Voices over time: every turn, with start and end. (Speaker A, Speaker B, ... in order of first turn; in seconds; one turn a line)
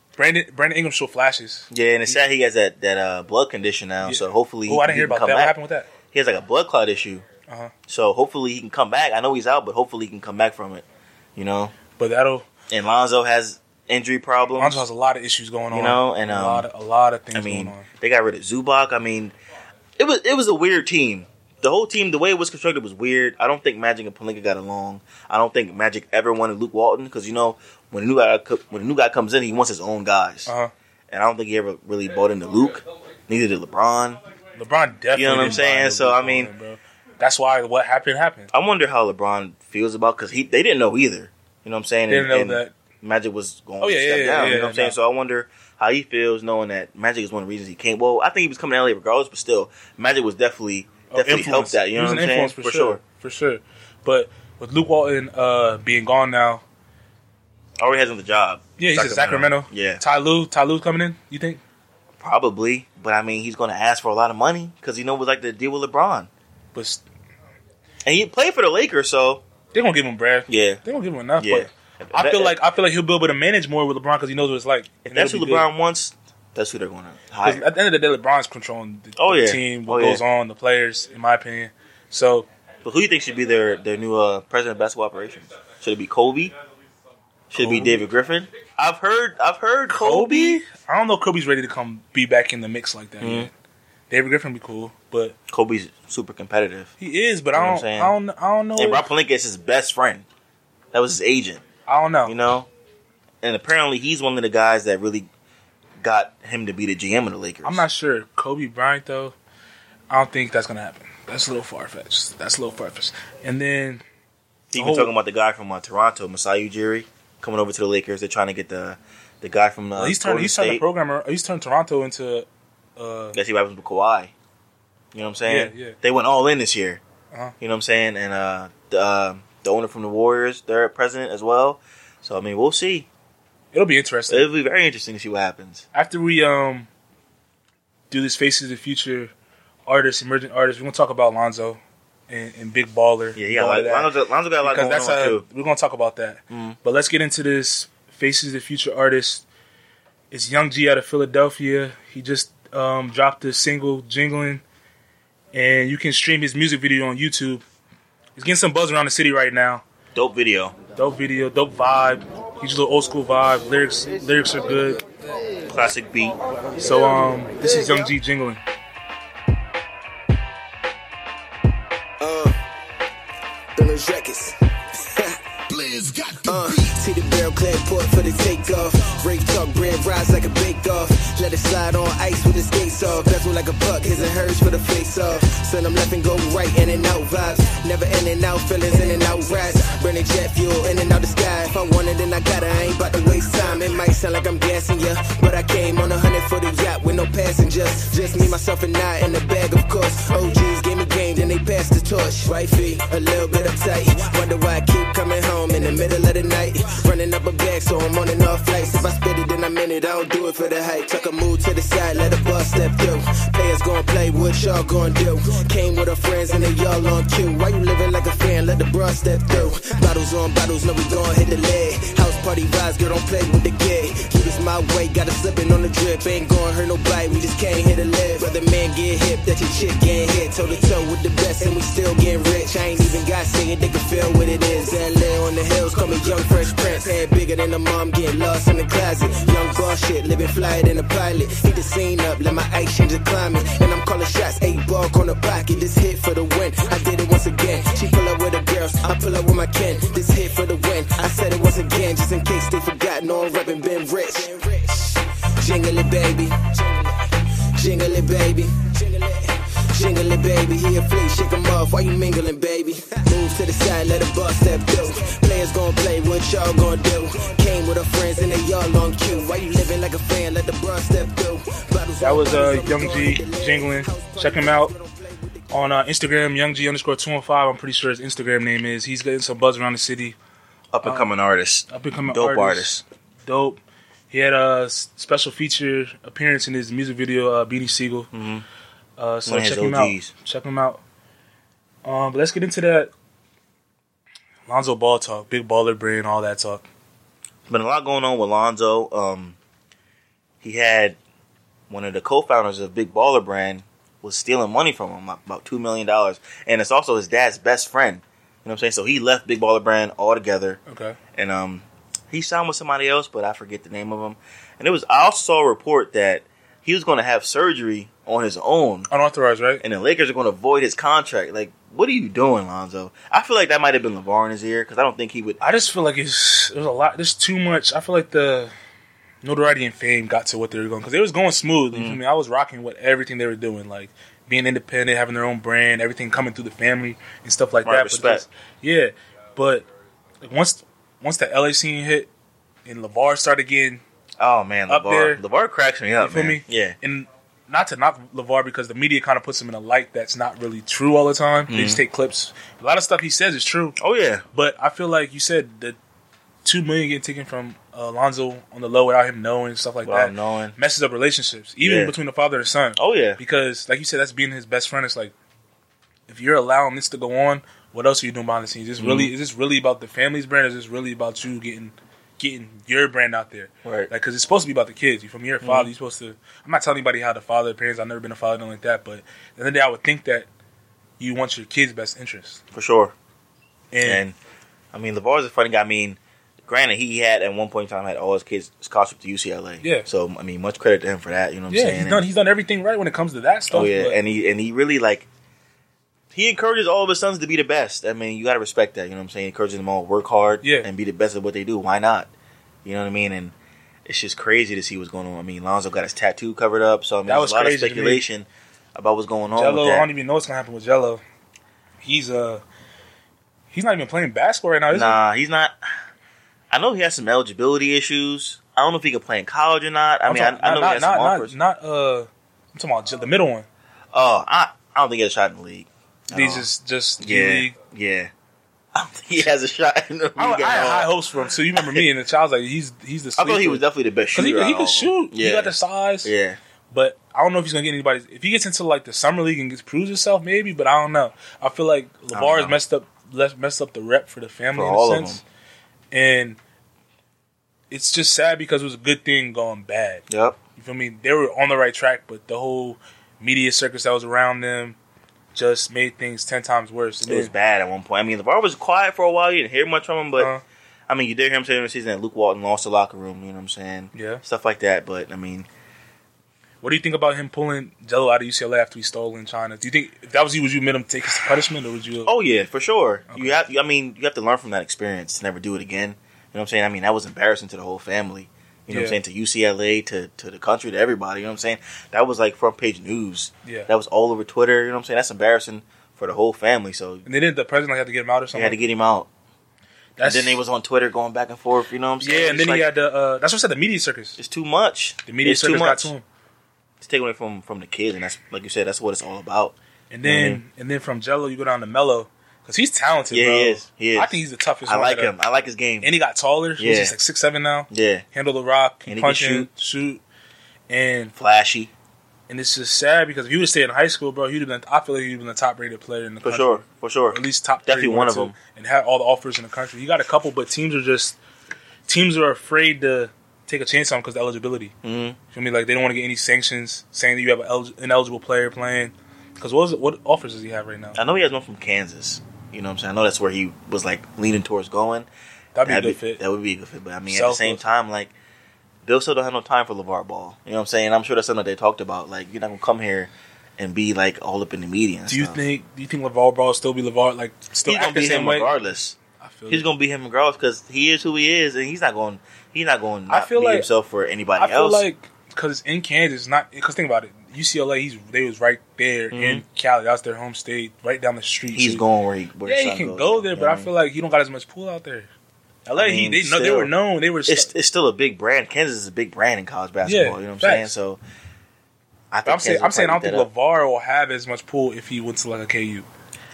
Speaker A: 0.2-2.2
Speaker B: 1.7-5.5
Speaker A: 4.0-5.9
Speaker B: 6.1-7.2
Speaker A: 7.5-7.7
Speaker B: 7.9-10.8
Speaker B: 11.3-11.7
Speaker A: 12.0-12.5
Speaker B: 12.7-14.8
Speaker A: 14.6-17.9
Speaker B: 15.7-16.7
Speaker B: 17.3-19.3
Speaker B: 20.0-30.5
Speaker A: 30.4-30.7
Speaker B: 31.1-34.2
Speaker A: 34.6-38.5
Speaker B: 35.1-36.5
Speaker B: 38.5-53.0
Speaker A: 42.1-42.7
Speaker A: 43.8-45.0
Speaker A: 51.1-56.6
Speaker B: 57.8-60.0
Speaker A: 58.8-61.6
Speaker B: 62.2-66.3
Speaker A: 66.7-67.0
Speaker B: 68.0-69.4
Speaker A: 69.7-75.7
Speaker B: 70.5-70.8
Speaker B: 71.4-72.6
Speaker B: 75.0-77.7
Speaker A: 77.4-82.5
Speaker B: 79.2-80.2
Speaker B: 82.8-86.5
Speaker B: 87.5-90.6
Speaker A: 87.5-88.0
Speaker A: 89.9-93.5
Speaker B: 93.2-93.5
Speaker A: 94.1-95.3
Speaker B: 95.5-96.9
Speaker A: 97.0-99.1
Speaker B: 97.5-98.1
Speaker B: 98.8-100.2
Speaker B: 100.9-101.6
Speaker A: 101.9-102.3
Speaker B: 102.2-102.7
Speaker B: 103.4-105.3
Speaker B: 106.0-107.8
Speaker A: 107.6-109.3
Speaker A: 110.1-114.0
Speaker B: 114.7-120.8
Speaker A: 114.7-115.1
Speaker A: 120.0-123.4
Speaker B: 123.3-124.3
Speaker B: 125.1-127.0
Speaker A: 125.5-126.0
Speaker B: 127.6-133.1
Speaker A: 133.7-134.5
Speaker B: 134.3-135.8
Speaker A: 135.9-136.9
Speaker A: 138.1-139.3
Speaker A: 139.8-144.1
Speaker B: 143.3-145.4
Speaker A: 144.6-149.4
Speaker B: 146.5-146.8
Speaker A: 150.3-154.6
Speaker A: 155.5-157.6
Speaker A: 158.3-159.8
Speaker B: 160.1-160.7
Speaker A: 161.0-165.0
Speaker B: 165.7-166.3
Speaker A: 166.8-168.6
Speaker C: 172.2-172.6
Speaker C: 173.7-275.6
Speaker A: 272.2-274.9
Speaker A: 275.7-280.4
Speaker B: 280.9-283.0
Speaker A: 281.0-281.3
Speaker A: 281.9-282.9
Speaker A: 283.4-283.8
Speaker A: 284.3-288.3
Speaker B: 288.3-288.6
Speaker A: 289.2-291.0
Speaker B: 289.4-290.3
Speaker A: 292.0-293.1
Speaker A: 294.7-296.8
Speaker B: 297.7-299.6
Speaker B: 300.6-301.2
Speaker B: 301.9-310.8
Speaker A: 310.9-311.2
Speaker B: 311.3-319.1
Speaker A: 319.1-319.8
Speaker B: 319.8-325.6
Speaker A: 325.6-328.7
Speaker A: 329.4-339.9
Speaker B: 331.9-332.2
Speaker B: 337.8-338.4
Speaker A: 340.4-342.3
Speaker A: 342.9-344.0
Speaker B: 344.4-347.0
Speaker A: 344.9-345.4
Speaker A: 346.2-353.9
Speaker B: 351.7-352.0
Speaker B: 354.0-354.4
Speaker A: 354.5-356.0
Speaker A: 356.6-365.3
Speaker B: 360.0-360.7
Speaker B: 361.8-362.1
Speaker B: 362.9-363.4
Speaker A: 366.3-380.5
Speaker B: 369.0-369.3
Speaker B: 373.8-374.1
Speaker B: 375.6-375.9
Speaker A: 381.2-382.6
Speaker B: 382.7-383.1
Speaker A: 383.9-384.2
Speaker B: 384.0-384.3
Speaker B: 384.9-392.2
Speaker A: 389.8-390.1
Speaker A: 391.7-394.2
Speaker B: 393.7-395.3
Speaker B: 396.3-402.3
Speaker A: 400.6-400.9
Speaker B: 402.8-403.5
Speaker B: 404.1-410.1
Speaker A: 407.2-408.2
Speaker A: 409.5-411.2
Speaker A: 412.0-412.6
Speaker A: 413.7-415.2
Speaker B: 414.9-415.8
Speaker B: 416.7-421.5
Speaker A: 420.3-423.6
Speaker B: 424.1-426.7
Speaker A: 426.3-427.8
Speaker B: 427.2-428.3
Speaker B: 428.9-431.1
Speaker A: 430.4-433.8
Speaker B: 431.7-432.1
Speaker B: 433.4-436.6
Speaker A: 434.3-436.3
Speaker A: 436.9-445.4
Speaker B: 442.3-442.8
Speaker B: 444.7-445.4
Speaker A: 446.1-446.6
Speaker A: 447.9-450.2
Speaker B: 450.3-450.6
Speaker A: 450.8-455.0
Speaker A: 455.5-457.5
Speaker B: 457.2-460.5
Speaker A: 460.4-460.6
Speaker B: 461.1-465.7
Speaker A: 464.1-464.4
Speaker A: 466.8-472.3
Speaker B: 472.2-487.2
Speaker A: 473.3-473.6
Speaker A: 478.9-479.2
Speaker A: 487.2-488.8
Speaker B: 488.5-489.3
Speaker A: 490.2-490.6
Speaker B: 490.2-492.9
Speaker A: 492.2-494.4
Speaker B: 494.4-496.1
Speaker A: 495.2-496.2
Speaker B: 497.0-500.6
Speaker A: 500.1-505.3
Speaker B: 503.3-506.1
Speaker A: 506.0-510.2
Speaker B: 506.8-507.1
Speaker B: 507.9-508.2
Speaker B: 509.1-509.7
Speaker A: 510.9-511.3
Speaker B: 511.4-511.9
Speaker A: 512.5-521.4
Speaker B: 516.4-518.5
Speaker A: 522.1-524.9
Speaker B: 525.0-525.4
Speaker A: 525.5-531.2
Speaker B: 531.1-535.3
Speaker A: 535.7-536.4
Speaker B: 535.8-538.3
Speaker A: 537.3-537.8
Speaker B: 539.0-545.6
Speaker A: 545.3-548.7
Speaker B: 547.9-549.1
Speaker A: 549.4-549.8
Speaker B: 549.7-555.0
Speaker A: 553.3-553.9
Speaker A: 554.6-562.0
Speaker B: 559.3-559.6
Speaker B: 561.7-563.9
Speaker A: 562.6-565.3
Speaker A: 565.9-567.7
Speaker B: 565.9-566.9
Speaker B: 567.5-571.2
Speaker A: 570.0-570.9
Speaker B: 572.3-573.5
Speaker A: 572.5-576.0